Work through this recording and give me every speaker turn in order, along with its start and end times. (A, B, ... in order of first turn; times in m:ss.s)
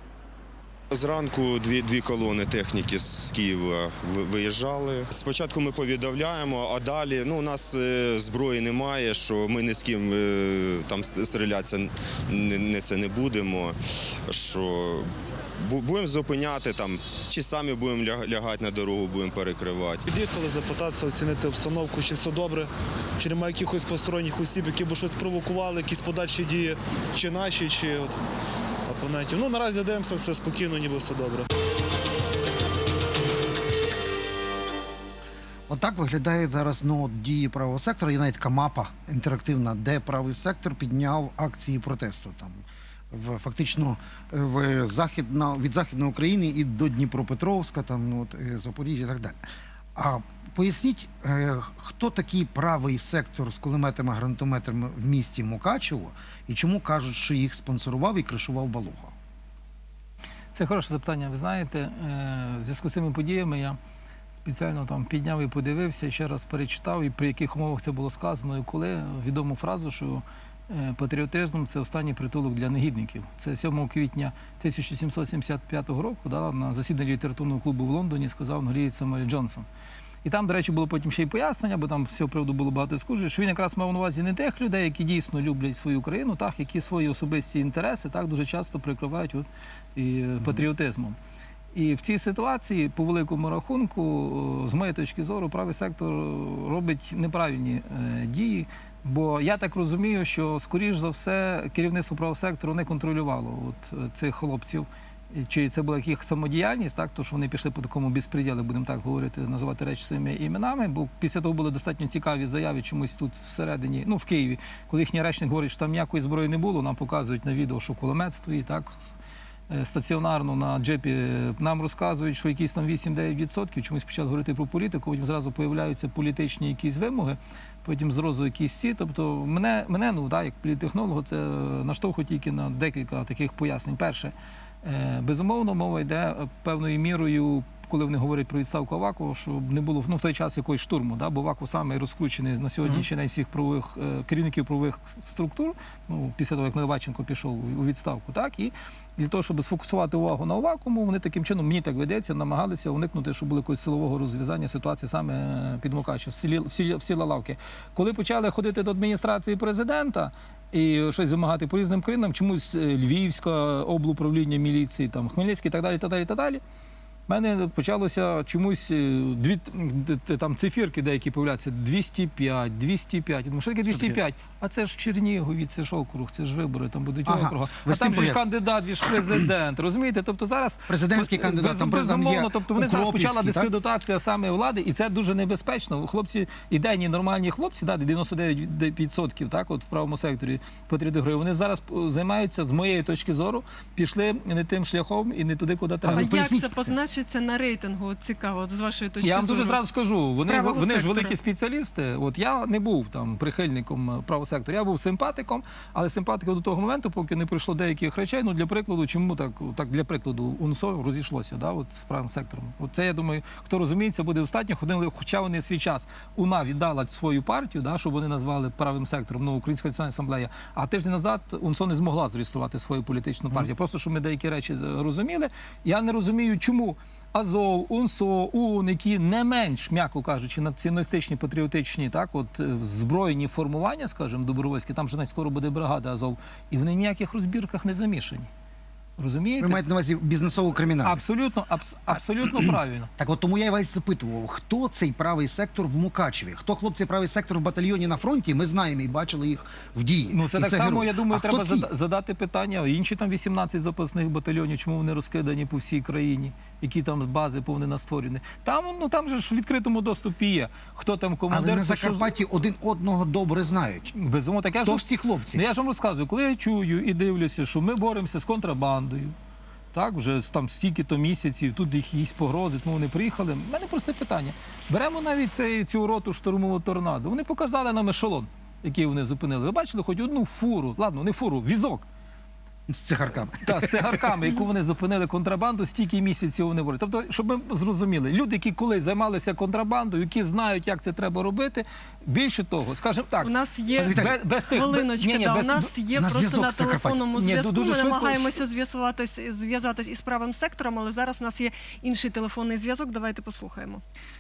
0:00.9-0:20.0 A
0:20.1-0:28.2 B
0:28.9-0:31.5 B
0:35.7-0:49.4 C
0:50.0-0:59.1 C
1:00.5-1:03.8 D
1:04.3-1:19.7 D
1:20.2-1:31.2 D
1:31.7-1:59.0 D
1:59.7-2:46.6 D
2:47.3-3:16.5 D
2:53.8-2:54.2 C
2:57.3-2:58.4 C
2:59.1-2:59.4 C
3:00.9-3:03.7 C
3:16.0-3:16.8 C
3:16.1-3:19.8 E
3:19.2-3:58.5 D
3:20.5-3:21.4 E
3:59.2-3:59.8 D
3:59.6-4:01.2 C
4:01.0-4:03.1 D
4:02.1-4:11.9 C
4:10.3-4:22.3 D
4:21.5-4:24.1 C
4:24.1-4:29.4 D
4:24.8-4:25.6 C
4:29.9-4:42.0 D
4:42.9-4:44.4 C
4:43.6-4:55.9 D
4:53.4-5:04.0 E
4:54.0-4:54.4 C
4:56.2-4:57.3 C
4:57.3-4:58.6 D